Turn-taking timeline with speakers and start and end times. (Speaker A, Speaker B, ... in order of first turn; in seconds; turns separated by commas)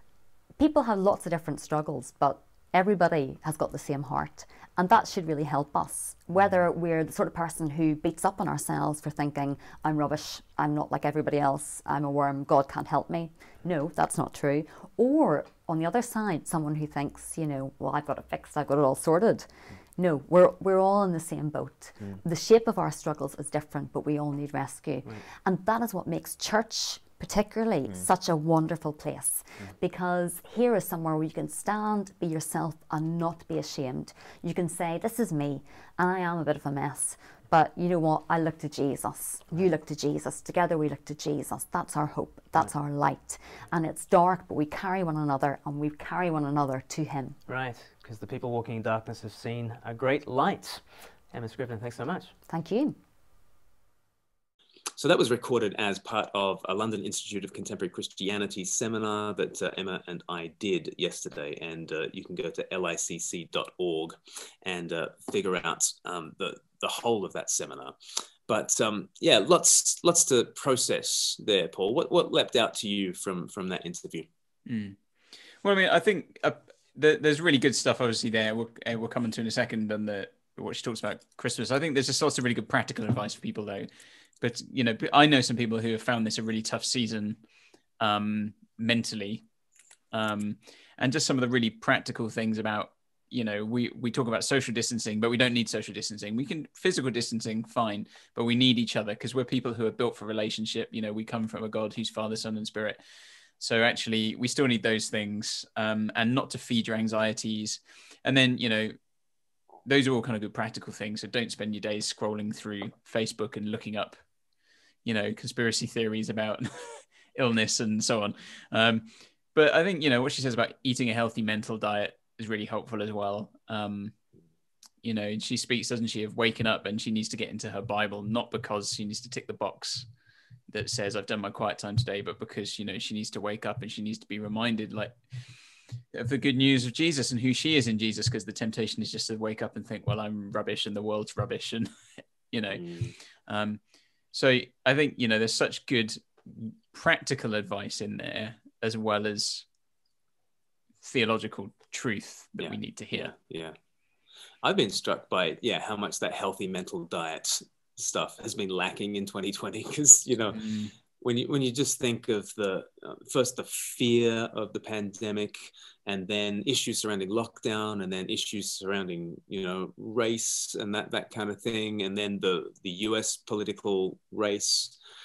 Speaker A: 0.6-47.4, Speaker B: 47.5-52.3, Speaker A: 52.5-53.0, Speaker C: 55.0-68.0, Speaker C: 68.5-74.3, Speaker D: 74.7-75.0, Speaker D: 75.6-83.9, Speaker D: 84.4-87.4, Speaker D: 88.0-89.4, Speaker D: 90.1-103.0, Speaker D: 103.6-109.0, Speaker D: 109.8-114.2, Speaker D: 115.0-124.1, Speaker D: 125.0-130.1, Speaker D: 130.7-135.2, Speaker D: 136.1-141.9, Speaker D: 142.5-143.8, Speaker C: 142.7-143.1, Speaker D: 144.3-149.7, Speaker D: 151.0-153.3, Speaker C: 152.6-153.8, Speaker C: 154.6-160.6, Speaker D: 160.5-160.9, Speaker C: 161.2-175.0